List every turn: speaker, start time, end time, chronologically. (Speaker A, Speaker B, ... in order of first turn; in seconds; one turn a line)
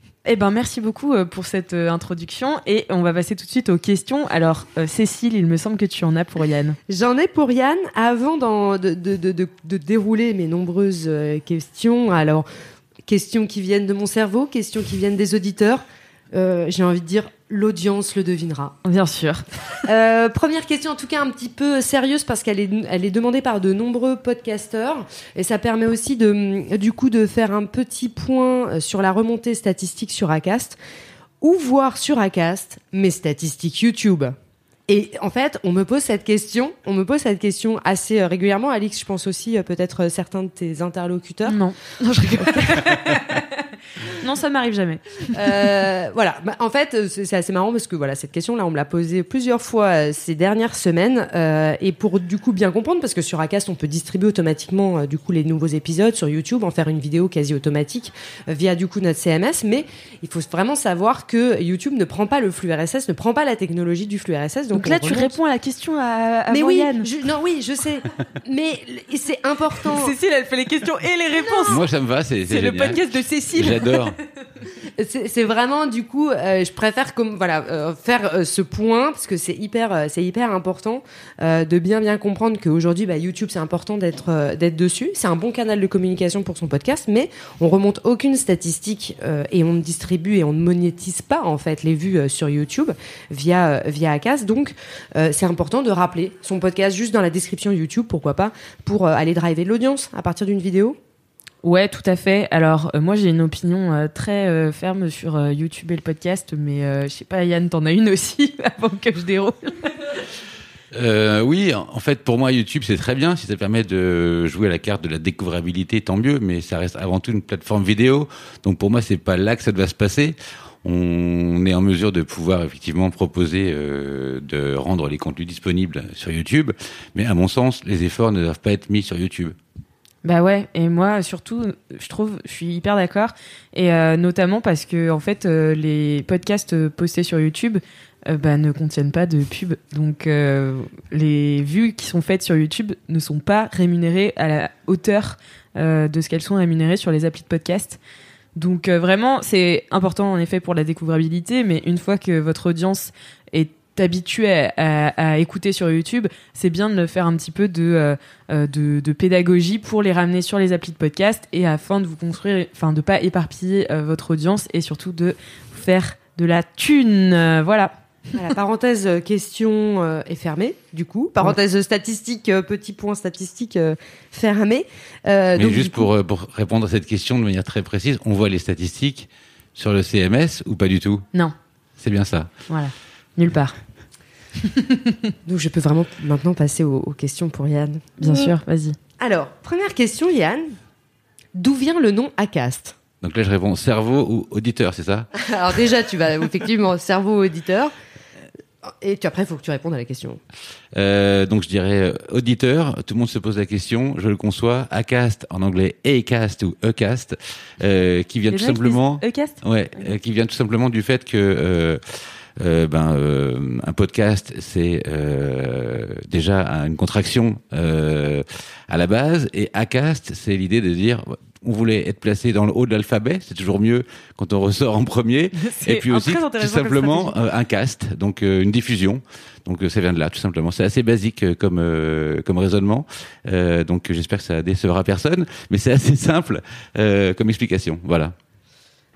Speaker A: 0.2-6.8
Speaker B: 6.9-12.4
Speaker B: 13.1-18.8
Speaker A: 18.8-19.8
Speaker B: 19.8-30.8
Speaker B: 31.4-34.3
Speaker B: 34.9-41.6
Speaker A: 41.5-45.7
Speaker B: 45.3-65.3
Speaker A: 64.7-67.1
Speaker B: 66.5-70.1
Speaker A: 69.9-71.8
Speaker C: 71.7-73.0
Speaker A: 72.5-74.1
Speaker C: 73.5-74.2
Speaker B: 75.0-101.0
Speaker A: 101.6-110.2
Speaker C: 110.9-129.5
Speaker A: 130.2-148.0
Speaker A: 148.5-167.9
Speaker B: 168.3-176.1
Speaker C: 175.5-181.2
Speaker C: 182.0-182.5
Speaker A: 182.7-183.7
Speaker B: 185.4-188.5
Speaker A: 188.2-188.9
Speaker B: 189.2-190.8
Speaker B: 191.5-192.9
Speaker C: 193.2-195.3
Speaker B: 195.4-197.9
Speaker B: 198.8-200.4
Speaker C: 200.9-212.0
Speaker A: 208.5-209.6
Speaker C: 212.6-238.3
Speaker A: 225.5-227.3